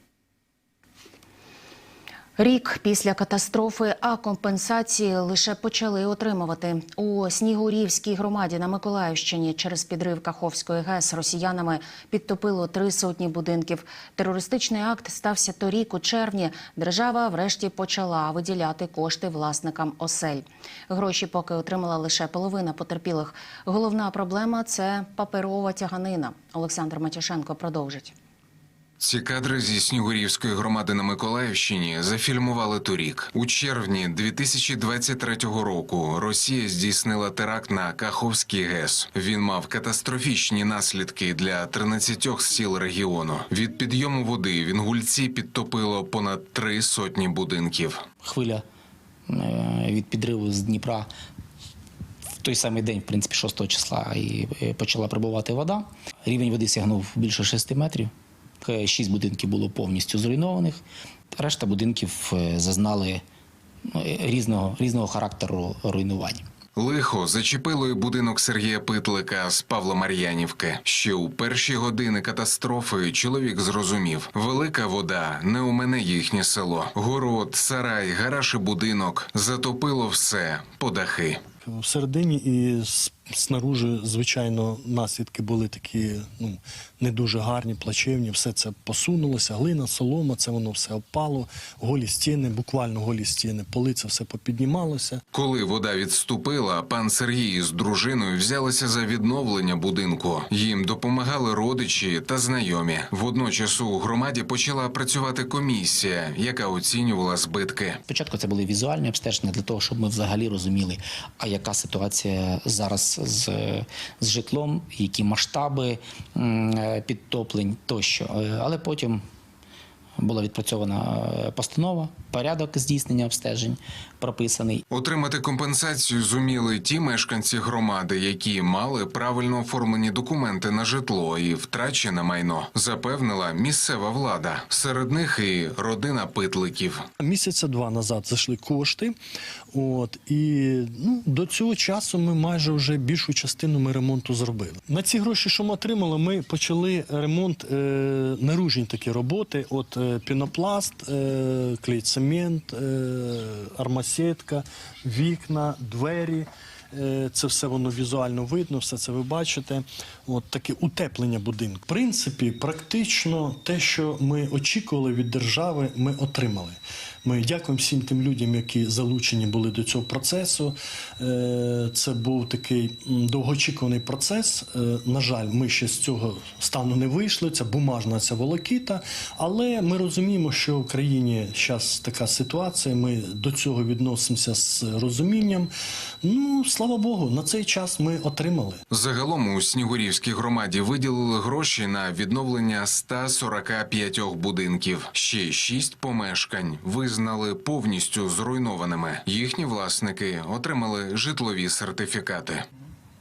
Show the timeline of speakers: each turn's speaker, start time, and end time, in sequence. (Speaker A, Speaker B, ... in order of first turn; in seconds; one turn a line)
Speaker A: 2.4-28.1
Speaker B: 29.0-48.0
Speaker C: 48.2-48.6
Speaker C: 49.3-51.1
Speaker C: 52.4-58.1
Speaker C: 58.6-60.8
Speaker C: 61.3-63.2
Speaker C: 63.9-66.4
Speaker B: 66.8-81.4
Speaker D: 81.6-95.2
Speaker B: 95.3-108.0
Speaker C: 108.1-119.2
Speaker C: 120.2-124.8
Speaker B: 124.9-137.0
Speaker D: 137.2-139.2
Speaker D: 139.7-185.7
Speaker D: 186.2-188.8
Speaker B: 188.9-202.7